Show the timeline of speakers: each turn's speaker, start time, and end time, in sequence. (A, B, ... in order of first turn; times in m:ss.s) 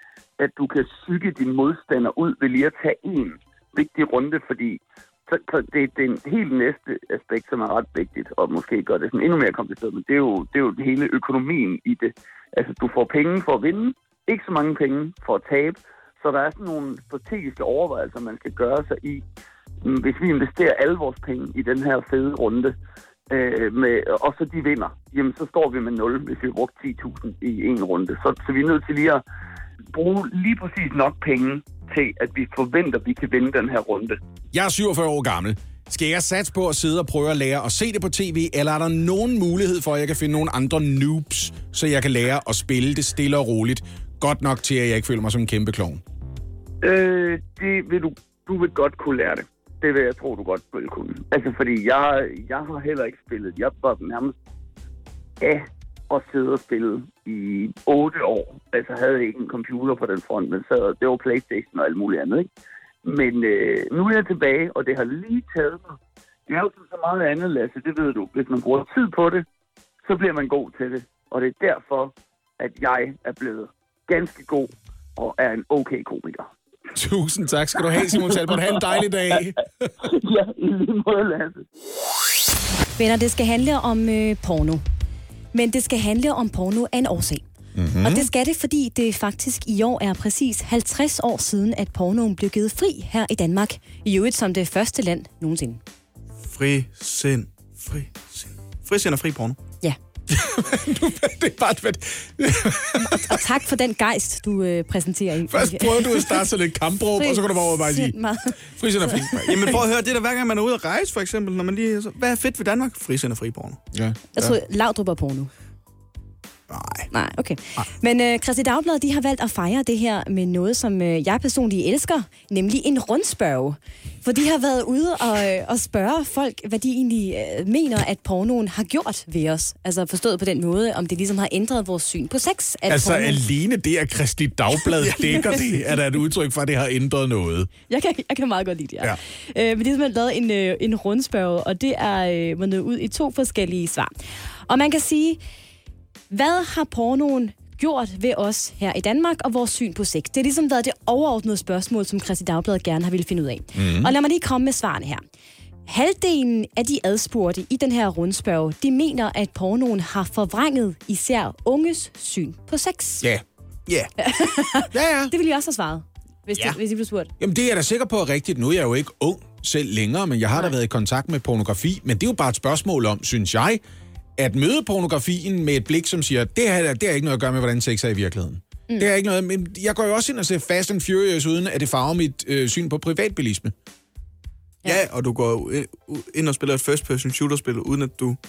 0:00.4-0:19.2 A
0:19.8-0:22.7 A
0:23.3-0:29.2 A
0:29.9-0:34.2 A
0:34.5-0:46.0 B
0:46.8-0:54.3 A
0:55.4-1:02.5 A
1:03.0-1:05.9 A
1:06.5-1:09.4 A
1:10.0-1:16.5 A
1:16.9-1:20.1 B
1:20.0-1:21.6 A
1:23.0-1:24.8 C
1:25.5-1:27.4 C
1:27.8-1:28.2 B
1:28.0-1:35.8 C
1:36.5-1:39.6 D
1:40.3-1:43.4 B
1:43.0-1:46.4 C
1:45.5-1:49.8 B
1:47.2-1:49.4 C
1:49.4-1:53.8 D
1:53.9-1:54.6 B
1:54.3-1:55.5 C
1:56.7-1:57.1 D
1:57.1-2:13.4 C
2:12.9-2:17.7 B
2:15.0-2:15.6 D
2:17.9-2:24.1 C
2:24.7-2:25.4 C
2:26.3-2:35.2 C
2:33.8-2:34.1 B
2:35.9-2:43.2 C
2:44.2-2:47.3 C
2:44.9-2:45.3 B
2:47.4-2:53.8 B
2:54.4-3:03.7 B
3:04.8-3:08.4 D